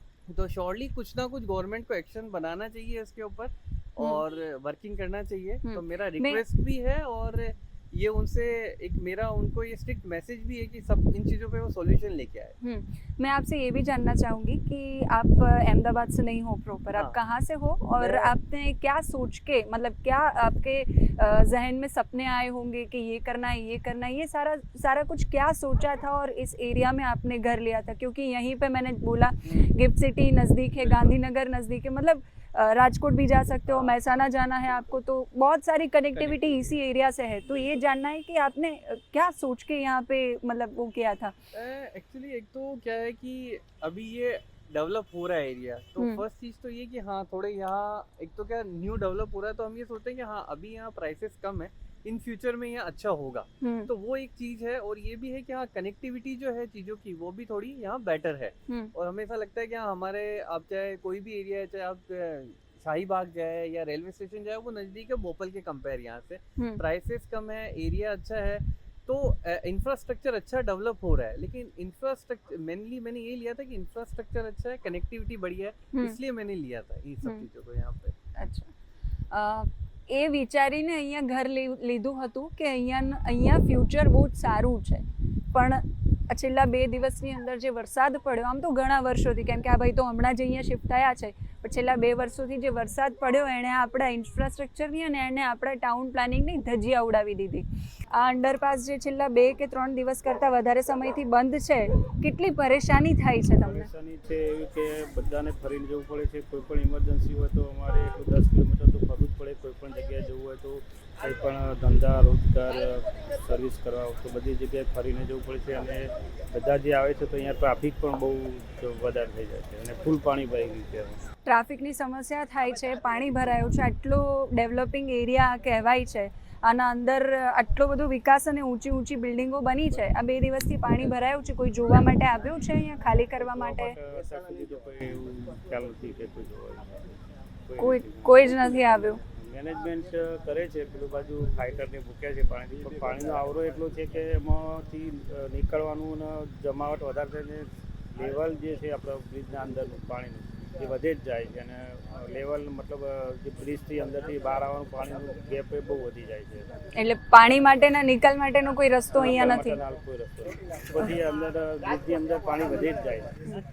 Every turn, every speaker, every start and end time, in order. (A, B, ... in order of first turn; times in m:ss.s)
0:00.3-0:12.6 A
0:05.6-0:06.4 B
0:12.6-0:41.3 B
0:18.0-0:18.3 A
0:29.5-0:29.7 A
0:30.8-0:31.2 A
0:33.7-0:34.0 A
0:36.2-0:36.7 A
0:41.5-1:18.2 A
0:53.6-0:53.9 B
1:18.4-1:18.7 B
1:19.3-1:43.9 B
1:43.6-2:01.2 C
2:01.4-2:14.0 B
2:13.4-2:17.1 C
2:17.7-2:36.7 C
2:17.8-2:19.2 B
2:37.0-2:39.8 B
2:39.1-2:43.6 C